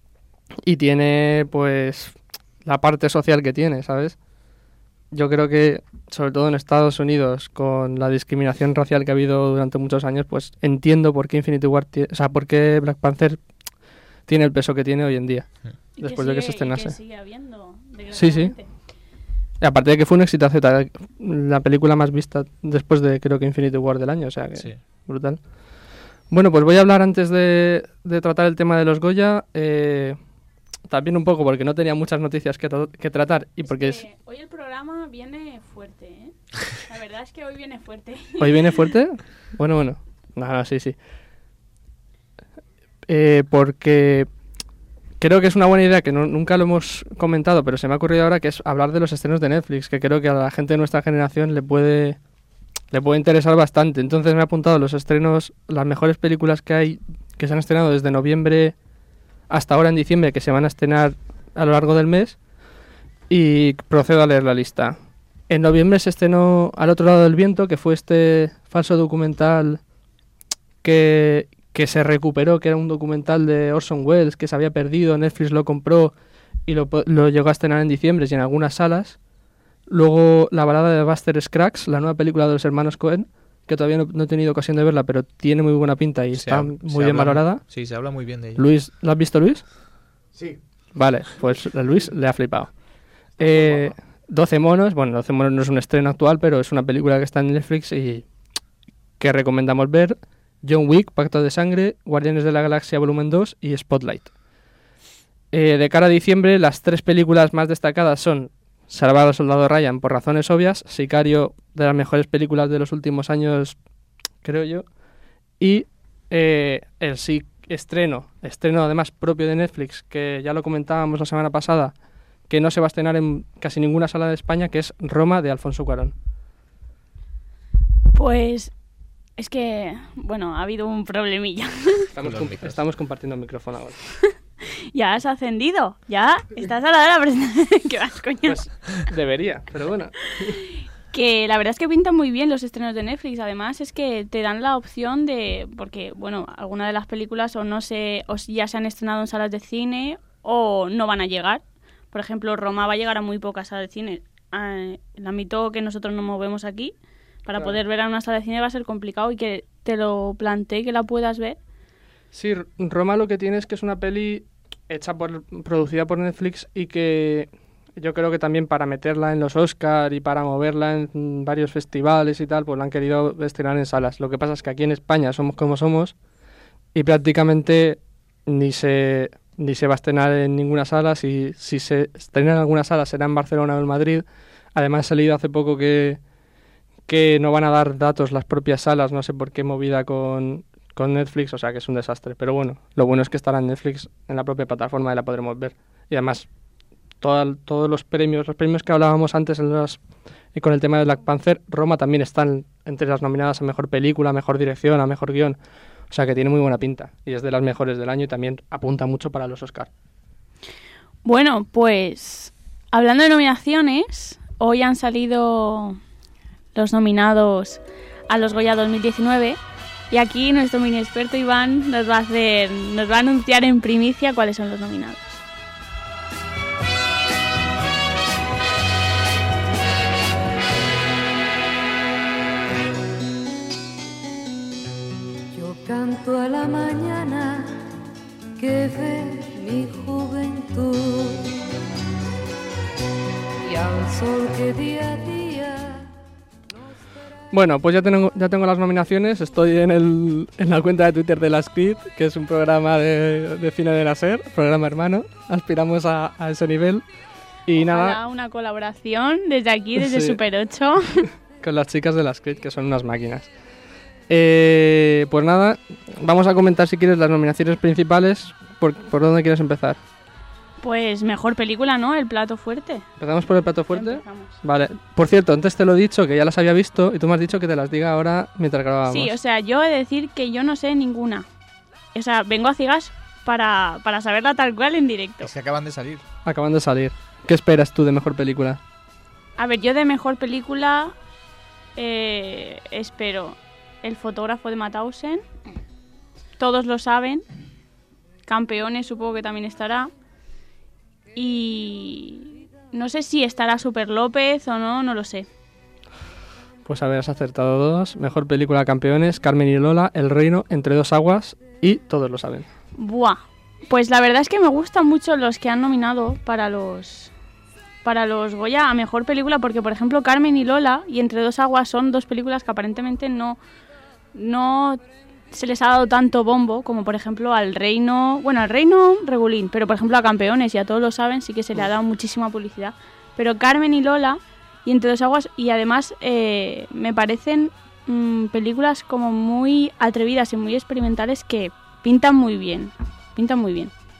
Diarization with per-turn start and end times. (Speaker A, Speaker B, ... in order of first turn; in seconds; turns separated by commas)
Speaker A: 0.7-4.2, Speaker A: 5.1-13.7, Speaker A: 14.2-17.0, Speaker B: 16.0-18.7, Speaker A: 18.1-18.6, Speaker A: 19.6-25.4, Speaker A: 26.3-30.2, Speaker A: 30.9-34.0, Speaker B: 33.6-38.5, Speaker A: 38.4-41.0, Speaker A: 43.1-44.3, Speaker A: 45.2-52.2, Speaker A: 52.9-58.8, Speaker A: 59.5-62.4, Speaker A: 63.3-65.0, Speaker A: 65.5-69.8, Speaker A: 70.8-79.2, Speaker A: 79.9-87.9, Speaker C: 86.3-88.7, Speaker A: 88.5-89.7, Speaker A: 90.9-98.3, Speaker C: 93.4-93.9, Speaker A: 99.2-104.3, Speaker A: 105.5-113.8, Speaker A: 114.4-114.9, Speaker A: 115.6-122.0, Speaker A: 122.5-126.1, Speaker B: 128.1-128.7, Speaker B: 129.4-132.1, Speaker A: 132.1-134.0, Speaker C: 132.2-132.8, Speaker B: 134.9-138.6, Speaker A: 138.4-140.5, Speaker B: 140.5-161.6, Speaker A: 162.3-176.2, Speaker A: 176.9-186.2, Speaker A: 187.1-196.5, Speaker A: 197.2-200.0, Speaker A: 200.5-205.6, Speaker A: 206.1-209.9, Speaker B: 211.2-216.0, Speaker B: 216.7-219.6, Speaker B: 220.1-225.4, Speaker D: 235.5-237.7, Speaker D: 238.6-241.4, Speaker D: 243.6-246.0, Speaker A: 247.5-257.1, Speaker A: 257.6-258.2, Speaker B: 257.8-261.3, Speaker A: 260.0-260.4, Speaker A: 261.6-263.5, Speaker A: 264.3-270.0, Speaker B: 270.8-273.1, Speaker A: 273.2-279.3, Speaker B: 273.9-274.5, Speaker B: 279.1-281.4, Speaker B: 282.1-285.5, Speaker C: 285.4-286.2, Speaker A: 286.4-288.8, Speaker B: 289.6-291.1, Speaker B: 291.9-295.4, Speaker B: 296.6-297.4, Speaker B: 298.4-300.1, Speaker B: 301.3-305.4, Speaker A: 306.8-312.7, Speaker B: 312.9-317.3, Speaker B: 318.0-323.6, Speaker B: 324.3-343.9